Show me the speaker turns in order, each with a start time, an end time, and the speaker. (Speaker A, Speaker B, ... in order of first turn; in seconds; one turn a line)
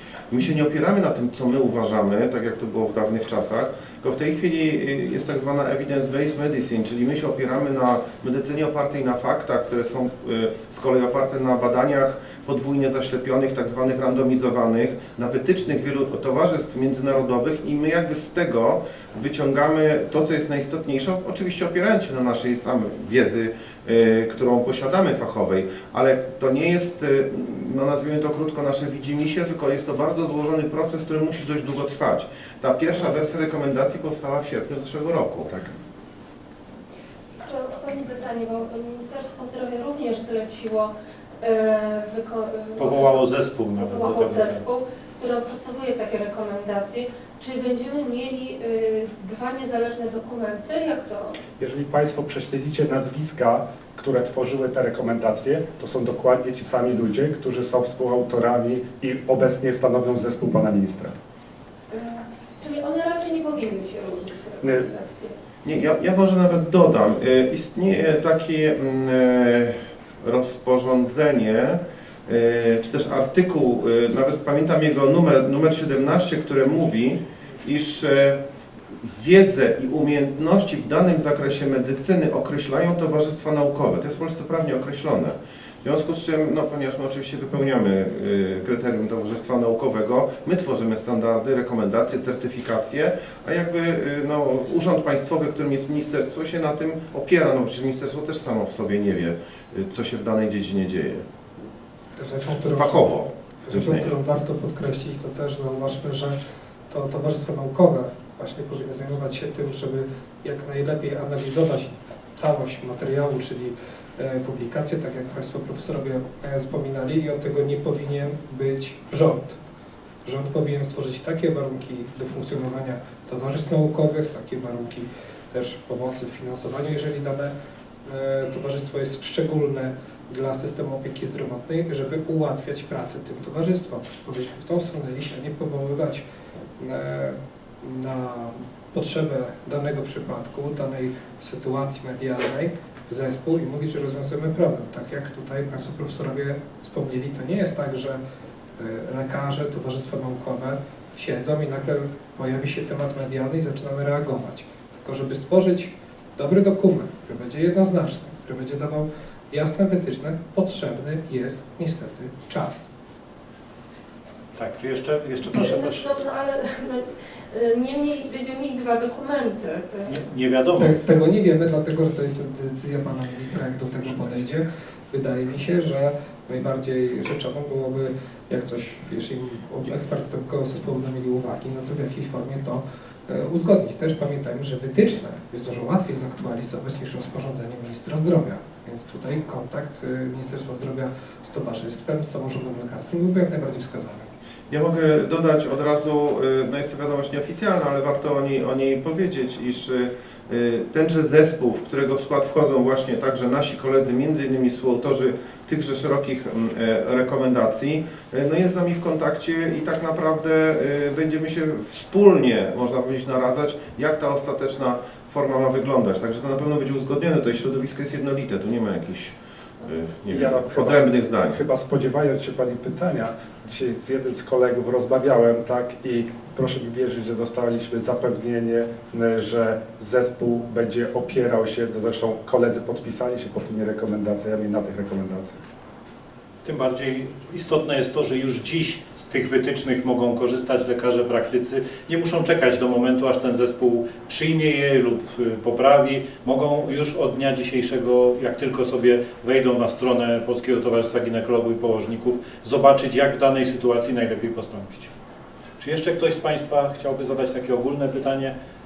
Speaker A: 0.3-35.7
Speaker B: 37.4-51.4
Speaker C: 42.8-44.6
Speaker D: 51.6-61.1
Speaker B: 61.9-65.3
Speaker A: 65.7-78.4
Speaker A: 79.0-101.3
Speaker E: 102.2-103.1
Speaker A: 102.8-104.1
Speaker E: 103.6-106.4
Speaker E: 106.9-119.6
Speaker E: 120.2-127.5
Speaker E: 128.1-136.2
Speaker E: 136.8-148.2
Speaker E: 148.8-162.9
Speaker C: 164.6-166.1
Speaker B: 165.4-170.2
Speaker C: 170.1-171.0
Speaker E: 170.8-194.3
Speaker A: 194.7-221.6
Speaker D: 220.3-235.6
Speaker C: 236.6-255.1
Speaker C: 255.8-258.5